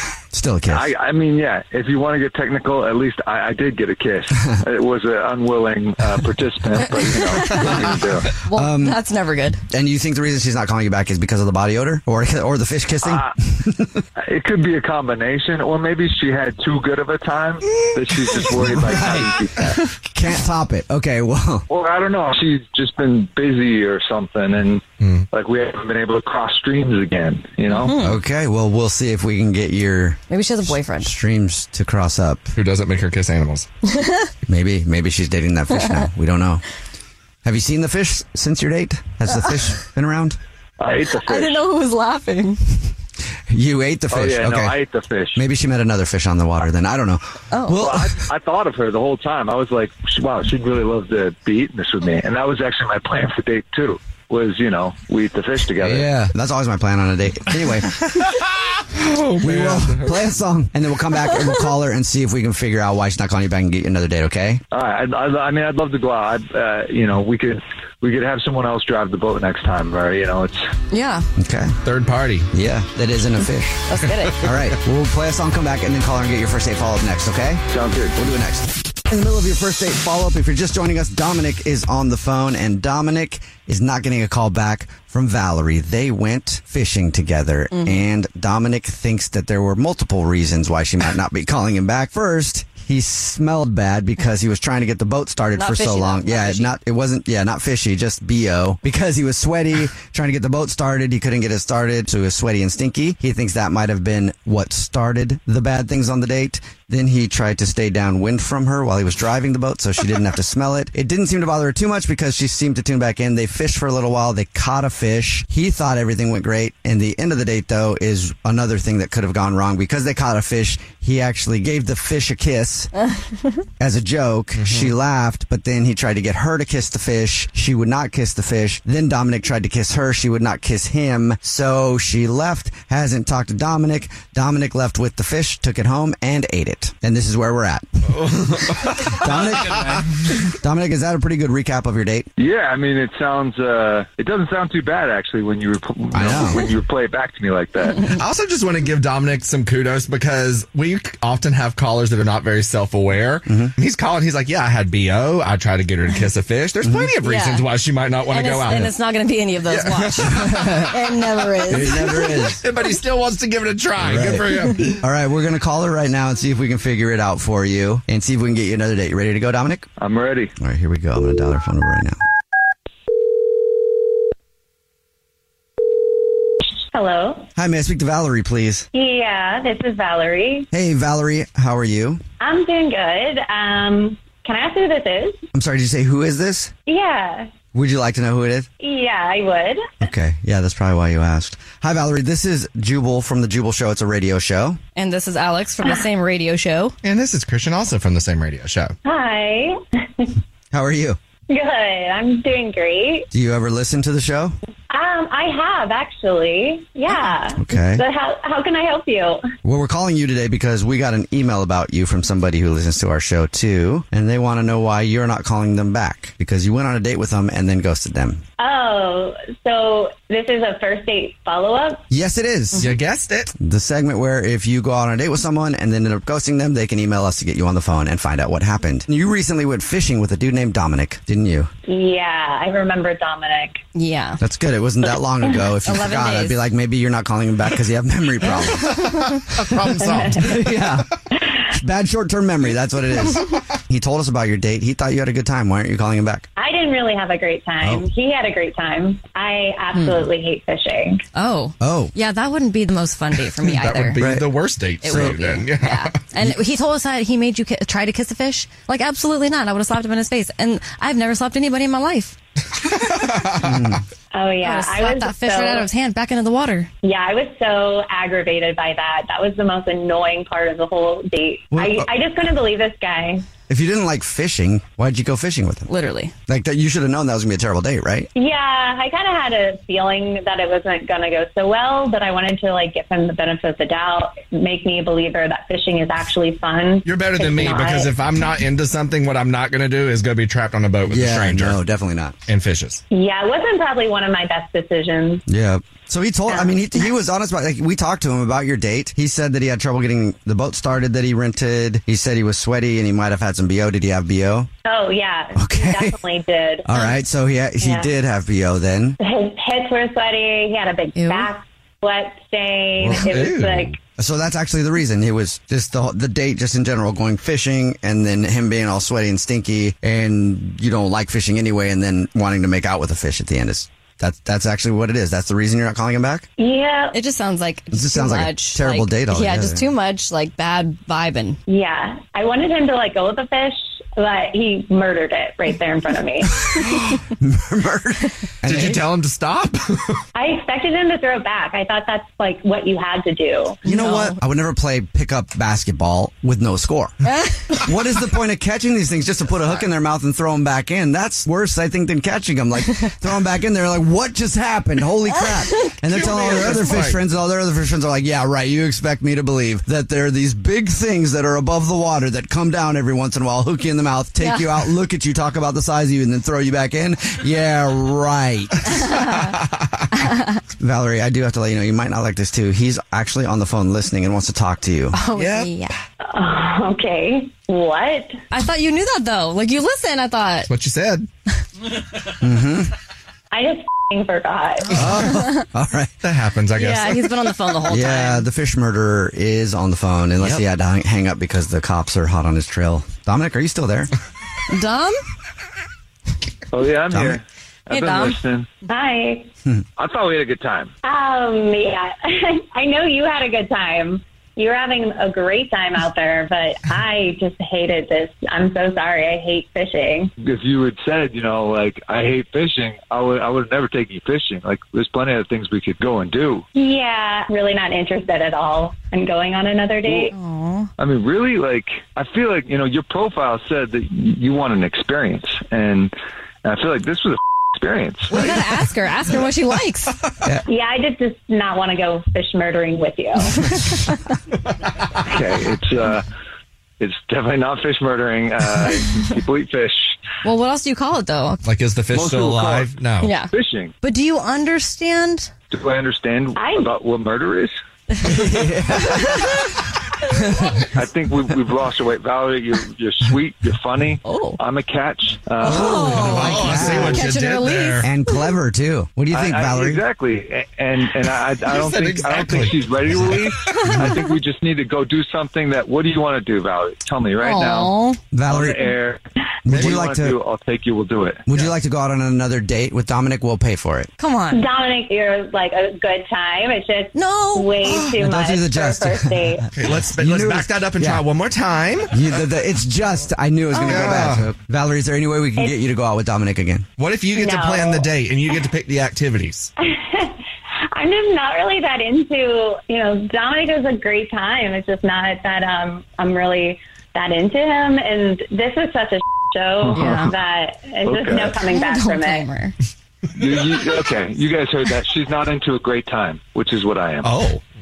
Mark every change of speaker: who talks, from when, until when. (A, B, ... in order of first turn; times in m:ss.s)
0:00.3-0:00.9 A
0:00.7-0:08.3 B
0:08.4-0:09.6 C
0:08.5-0:09.0 A
0:09.7-0:14.0 A
0:13.0-0:13.3 B
0:14.2-0:19.6 B
0:18.6-0:21.7 A
0:21.7-0:28.0 B
0:25.0-0:25.3 D
0:27.7-0:28.2 C
0:28.0-0:32.5 A
0:30.3-0:31.2 C
0:32.6-0:33.7 D
0:33.8-0:34.3 C
0:34.5-0:36.6 A
0:37.4-0:40.4 A
0:40.8-0:41.7 B
0:41.0-0:42.7 C
0:43.5-0:44.8 A
0:44.1-0:45.4 B
0:45.4-0:48.2 A
0:47.5-0:47.9 C
0:47.8-0:56.0 B
0:55.8-0:58.0 A
0:58.9-1:00.2 D
0:59.4-1:04.6 A
1:04.7-1:10.7 B
1:10.9-1:11.3 C
1:11.4-1:11.7 A
1:11.8-1:12.5 D
1:12.5-1:13.8 A
1:13.9-1:14.5 C
1:14.4-1:17.6 A
1:17.7-1:18.1 B
1:18.2-2:02.9 A
1:27.7-1:28.1 C
1:35.5-1:36.7 C
2:03.8-2:18.4 A
2:04.6-2:04.9 D
2:18.1-2:20.0 D
2:19.2-2:19.8 A
2:20.4-2:22.3 A
2:22.4-2:28.1 B
2:26.1-2:26.7 A
2:28.1-2:39.0 D
2:33.5-2:33.7 A
2:36.8-2:37.2 A
2:37.2-2:37.7 C
2:38.3-2:42.5 C
2:39.7-2:41.0 D
2:41.7-2:42.6 A
2:42.6-2:45.0 D
2:44.0-2:49.9 A
2:50.0-2:50.5 B
2:50.6-2:52.2 A
2:56.9-2:57.5 E
2:57.6-2:58.9 A
2:58.9-3:00.7 E
3:00.7-3:02.2 A
3:02.4-3:05.4 E
3:05.5-3:06.7 A
3:06.9-3:07.5 E
3:07.7-3:08.7 A
3:08.8-3:09.9 E
3:10.0-3:14.8 A
3:15.0-3:17.0 C
3:17.0-3:19.0 D
3:19.0-3:20.3 E
3:20.7-3:21.2 A
3:21.5-3:23.3 E
3:23.3-3:24.6 A
3:24.9-3:29.4 E
3:27.6-3:28.0 A
3:29.6-3:38.4 A
3:38.6-3:42.0 E
3:42.1-3:42.9 A
3:42.8-3:43.5 D
3:43.6-3:51.7 A
3:51.9-3:53.8 E
3:54.0-3:54.4 C
3:54.4-3:59.0 A
3:55.8-3:56.7 C
3:58.5-4:00.8 D
3:59.9-4:00.6 E
4:00.3-4:01.1 A
4:01.6-4:06.5 A
4:06.6-4:11.2 E
4:07.8-4:08.1 A
4:09.9-4:10.3 C
4:11.3-4:14.2 C
4:11.8-4:12.1 A
4:13.4-4:16.3 D
4:14.2-4:15.6 A
4:15.0-4:22.4 C
4:23.0-4:23.8 D
4:23.6-4:24.0 A
4:24.3-4:25.9 E
4:24.6-4:26.9 C
4:27.0-4:33.4 E
4:31.7-4:32.1 A
4:33.7-4:35.9 A
4:35.9-4:36.3 C
4:36.5-4:38.3 A
4:38.4-4:48.1 E
4:47.0-4:51.8 D
4:51.1-4:52.4 A
4:52.5-4:53.0 D
4:53.1-4:55.4 E
4:55.5-5:04.7 A
4:56.5-4:56.8 E
5:04.9-5:07.1 E
5:05.6-5:06.2 A
5:06.8-5:09.2 A
5:07.8-5:08.1 E
5:09.2-5:14.0 E
5:11.2-5:11.5 C
5:13.0-5:13.2 A
5:13.1-5:14.0 D
5:14.2-5:26.5 A
5:26.6-5:27.2 E
5:27.1-5:31.6 C
5:27.9-5:29.9 A
5:31.7-5:36.7 E
5:36.6-5:39.0 A
5:38.6-5:40.2 D
5:40.4-5:43.8 E
5:43.8-5:44.4 C
5:43.8-6:09.0 A
5:56.0-5:57.2 D
6:04.4-6:04.7 C
6:09.2-6:09.5 D
6:10.8-6:15.2 A
6:15.1-6:16.0 C
6:15.4-6:15.8 D
6:16.3-6:18.4 E
6:18.5-6:20.7 C
6:20.7-6:21.3 D
6:22.4-6:22.9 A
6:23.5-6:25.1 E
6:24.9-6:26.1 A
6:26.2-6:27.3 D
6:26.8-6:28.5 C
6:27.9-6:34.1 A
6:34.7-6:35.2 C
6:36.7-6:38.7 B
6:37.1-6:37.4 A
6:37.9-6:38.4 C
6:38.9-6:39.5 E
6:40.0-6:40.9 B
6:41.0-6:50.3 E
6:50.4-6:56.6 B
6:56.8-7:00.4 E
7:00.1-7:00.9 C
7:01.0-7:06.1 B
7:06.6-7:08.4 B
7:08.3-7:10.2 C
7:10.7-7:13.8 E
7:15.3-7:16.2 B
7:17.0-7:20.2 B
7:20.4-7:21.6 C
7:21.6-7:23.4 D
7:22.2-7:22.9 B
7:23.2-7:25.5 C
7:23.5-7:23.9 B
7:25.7-7:27.7 B
7:26.6-7:26.9 E
7:28.2-7:29.5 A
7:31.0-7:35.8 B
7:34.2-7:34.6 C
7:35.6-7:38.5 C
7:35.6-7:37.3 A
7:35.7-7:38.1 D
7:38.0-7:40.0 A
7:39.3-7:47.9 B
7:41.7-7:43.9 D
7:47.4-7:48.2 C
7:48.3-7:48.9 A
7:48.5-7:49.2 B
7:49.7-7:50.4 A
7:49.7-7:51.4 B
7:51.5-7:54.1 A
7:54.2-7:54.6 C
7:54.5-7:59.7 E
7:57.1-7:58.0 C
7:58.1-7:59.5 A
7:59.7-8:02.4 D
8:00.2-8:01.3 A
8:02.1-8:06.9 A
8:03.7-8:04.2 C
8:03.9-8:04.5 D
8:07.0-8:09.7 D
8:07.3-8:08.1 E
8:09.8-8:10.4 E
8:10.9-8:22.5 E
8:19.9-8:20.3 B
8:19.9-8:20.3 C
8:21.1-8:21.6 B
8:21.7-8:22.8 C
8:23.4-8:27.3 B
8:27.2-8:27.6 D